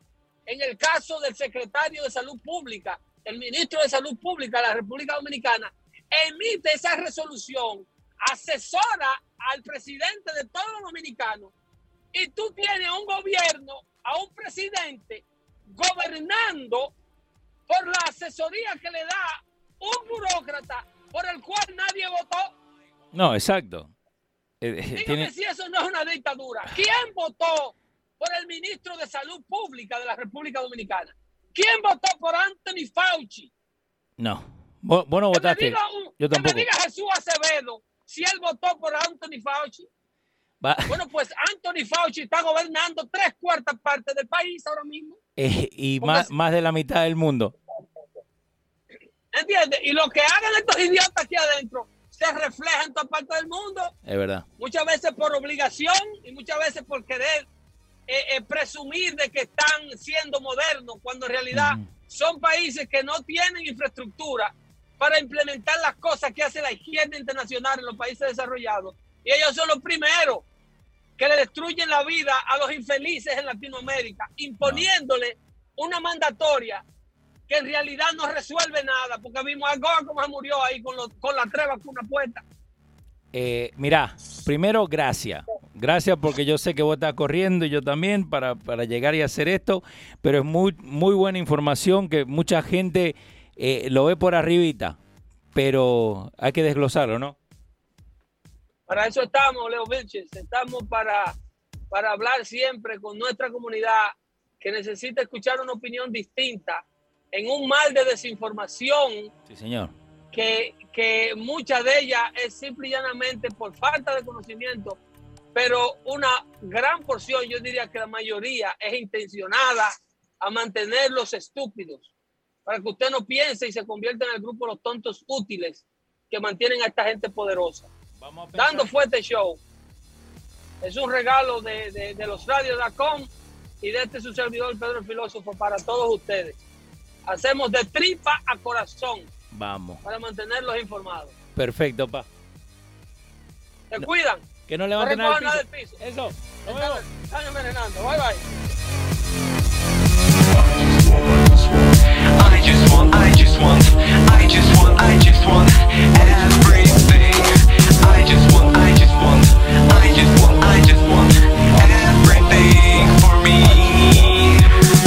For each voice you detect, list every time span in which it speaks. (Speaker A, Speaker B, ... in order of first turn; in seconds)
Speaker A: 0.5-11.5, 12.1-16.9, 17.7-22.5, 24.9-33.5, 35.3-39.9, 40.9-45.2, 46.0-46.3, 49.3-53.9, 54.6-57.5, 58.1-70.5, 71.2-76.8, 77.5-82.4, 98.9-101.3, 101.9-109.3, 110.3-115.0, 115.5-122.1, 122.7-127.9, 128.6-129.6, 130.8-136.6, 137.2-139.3, 140.0-141.3, 143.9-146.0, 146.6-148.5
Speaker B: 23.1-23.9, 24.6-25.3, 34.2-36.7, 40.6-41.0, 45.4-47.5, 54.0-54.5, 61.5-61.9, 83.3-95.0, 95.5-97.4, 109.5-109.9, 128.2-128.9, 139.5-140.0, 141.6-142.3, 144.7-147.0
Speaker C: 150.6-164.7